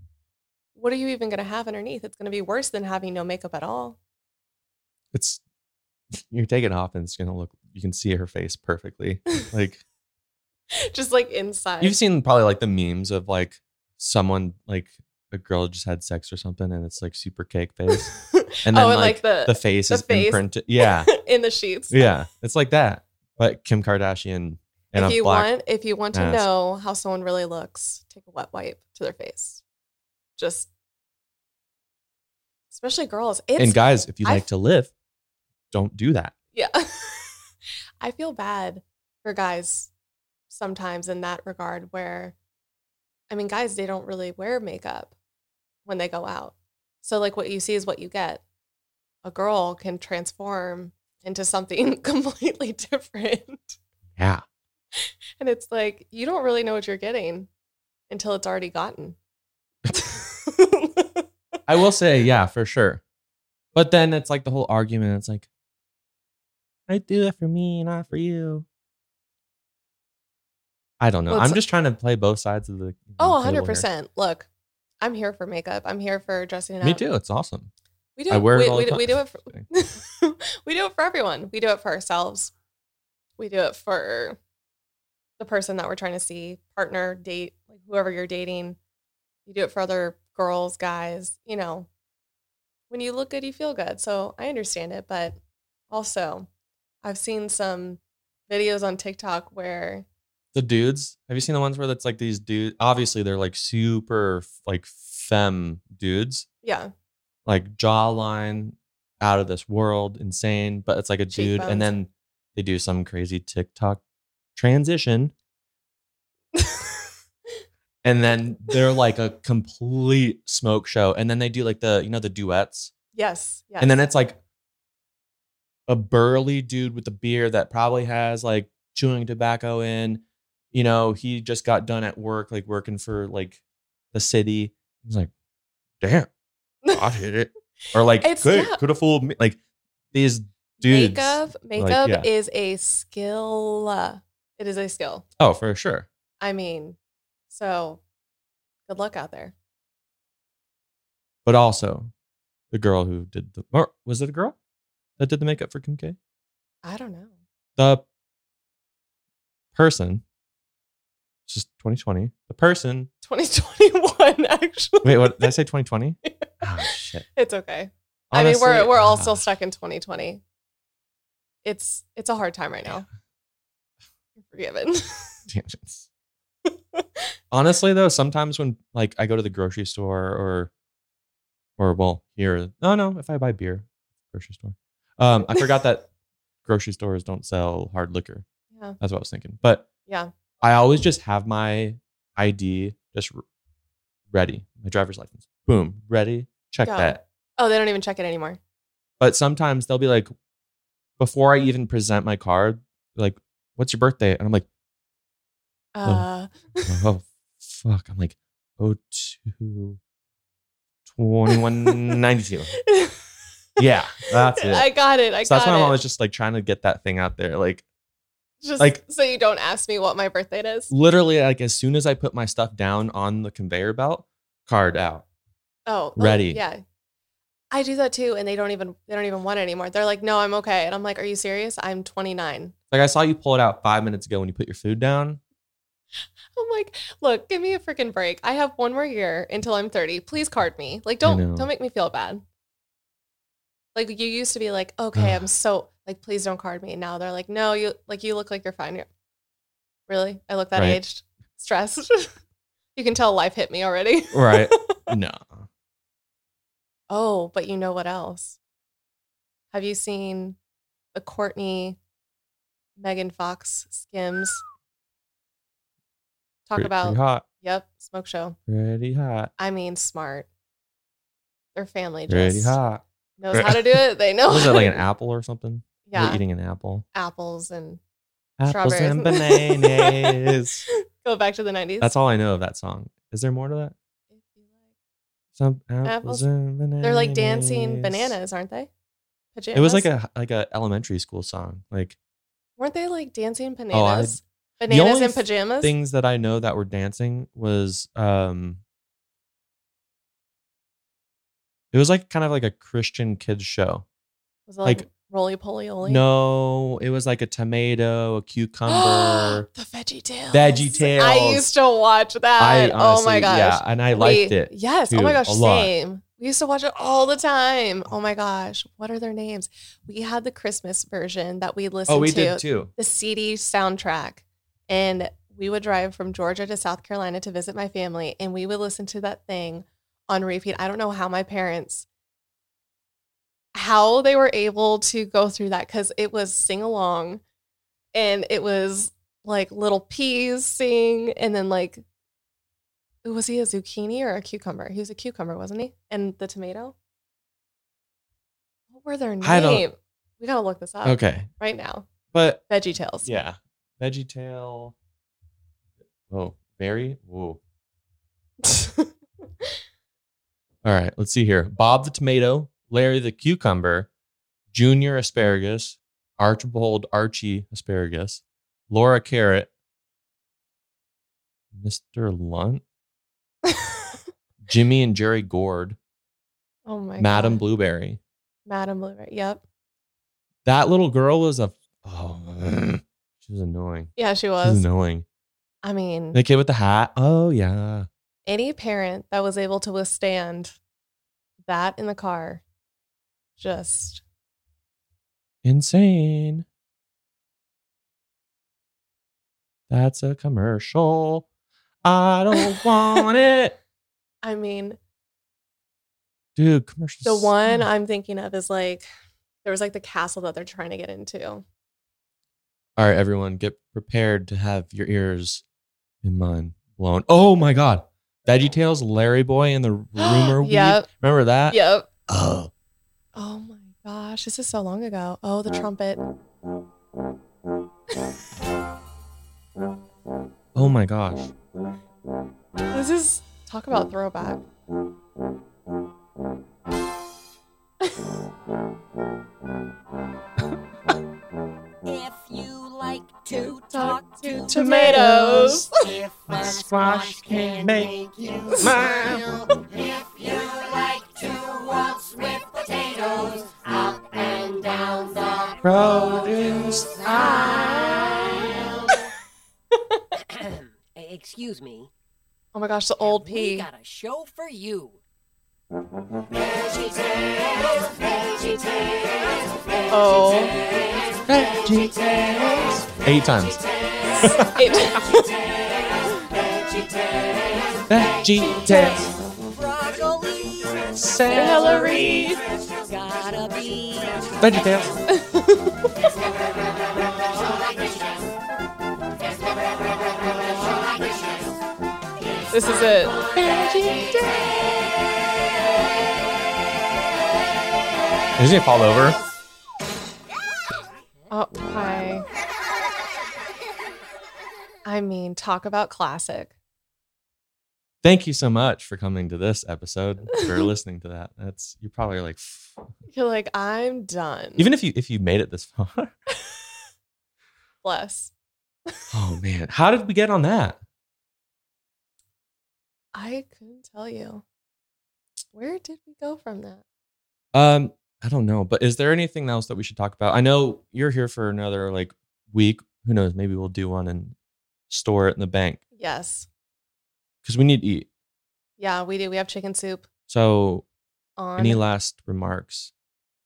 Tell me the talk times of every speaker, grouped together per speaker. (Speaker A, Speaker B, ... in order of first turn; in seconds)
Speaker A: 0.7-4.0, 10.7-12.0, 17.9-22.1, 24.9-29.6, 30.4-30.7, 32.7-34.5, 36.5-37.4, 38.0-39.9, 40.5-42.3, 43.3-45.1, 45.9-48.4, 49.2-53.8, 54.9-57.5, 58.1-59.2, 59.9-61.2, 71.3-71.6, 73.2-74.5, 75.0-77.0, 78.2-82.5, 83.4-84.4, 85.4-88.8, 89.5-91.9, 92.9-95.4, 95.9-96.5, 97.0-100.0, 106.6-106.9, 111.3-111.9, 116.5-117.0, 123.1-124.0, 138.2-138.8, 140.8-145.2, 146.4-147.0, 147.5-148.0, 148.9-149.5, 156.8-157.3, 163.2-165.5, 166.2-170.4, 171.6-173.1, 174.3-175.4, 176.7-177.2, 196.8-198.6, 205.9-207.0, 211.5-212.1, 212.8-213.3, 214.3-216.0, 218.6-220.9, 225.9-226.8, 227.7-232.7, 236.5-242.4, 243.9-249.1, 250.1-252.4, 252.9-255.0, 257.1-258.6, 259.7-260.6, 261.1-262.0, 263.0-264.6, 266.7-268.6, 269.6-270.5, 271.7-272.8, 273.4-274.9, 276.1-276.4, 277.1-278.0, 278.6-282.1, 284.3-284.8, 286.0-286.4, 287.0-288.9, 289.5-290.1, 292.8-295.9, 304.7-306.2, 308.9-332.1, 333.7-337.4, 338.1-342.0, 343.2-346.9, 348.9-352.1, 352.7-353.3, 358.6-359.1, 373.7-374.0, 376.9-377.6, 378.6-379.6, 384.1-384.8, 385.8-386.4, 388.4-390.8, 391.6-392.6, 393.6-394.2, 404.4-405.0, 407.2-409.0, 409.6-411.6, 420.2-421.1, 421.7-422.1, 423.4-426.2, 432.9-434.6, 443.5-445.9, 457.3-457.9, 462.7-463.9, 470.1-470.7, 474.7-475.5, 481.5-482.6, 485.3-486.1, 492.7-494.6, 501.5-502.4, 505.1-506.7, 510.6-510.9, 513.3-514.9, 518.0-518.5, 523.3-524.6, 525.7-527.0, 536.1-536.7, 539.0-540.3, 541.6-542.0
Speaker B: 5.1-5.4, 6.1-9.8, 11.8-18.1, 18.6-21.1, 21.9-25.5, 26.1-26.5, 33.6-34.9, 35.7-36.3, 54.2-54.4, 61.7-63.0, 63.7-65.5, 66.9-68.6, 71.0-73.8, 76.8-77.7, 78.3-79.6, 100.5-106.5, 107.5-114.0, 114.5-115.3, 118.0-122.9, 123.8-124.4, 125.9-133.6, 134.1-135.3, 136.0-136.3, 136.9-139.6, 140.1-142.3, 145.4-146.1, 151.4-152.1, 152.7-154.6, 155.2-156.2, 157.8-158.0, 159.7-160.2, 161.5-163.1, 165.0-167.2, 168.3-169.4, 175.5-176.1, 177.5-180.7, 181.8-186.1, 186.6-188.4, 189.0-189.9, 190.6-193.4, 194.3-197.2, 199.2-200.3, 201.2-204.7, 206.8-210.0, 211.1-212.8, 213.8-214.9, 215.4-217.8, 220.9-225.2, 226.2-226.6, 232.9-235.4, 241.2-241.7, 245.2-245.4, 250.7-251.0, 254.3-255.7, 266.7-267.4, 268.7-269.5, 272.3-277.0, 278.6-280.8, 282.0-283.9, 285.6-288.3, 289.7-292.2, 293.9-298.8, 301.9-304.0, 306.0-309.7, 310.5-311.7, 312.6-315.9, 322.1-322.9, 349.4-349.8, 351.0-351.5, 352.3-352.6, 353.2-354.9, 356.3-357.6, 360.8-364.1, 364.7-369.7, 371.7-372.8, 374.7-376.0, 377.2-378.2, 380.6-385.2, 386.3-388.1, 395.6-396.6, 399.9-401.4, 402.0-403.8, 406.6-407.9, 413.0-415.6, 416.2-422.7, 430.7-431.5, 444.7-445.9, 446.5-449.7, 455.8-458.0, 471.5-473.8, 474.4-474.8, 478.1-479.3, 481.1-482.4, 484.6-485.1, 498.6-499.4, 508.2-513.0, 514.8-516.4, 519.3-521.0, 527.7-534.5, 535.1-536.0, 537.6-538.3, 540.5-541.0, 541.8-543.1
Speaker C: 442.0-456.6, 457.1-459.1, 460.3-462.1, 463.2-465.2, 466.5-471.4, 473.6-478.2, 478.8-485.1, 486.2-488.5, 489.5-491.8, 492.6-494.7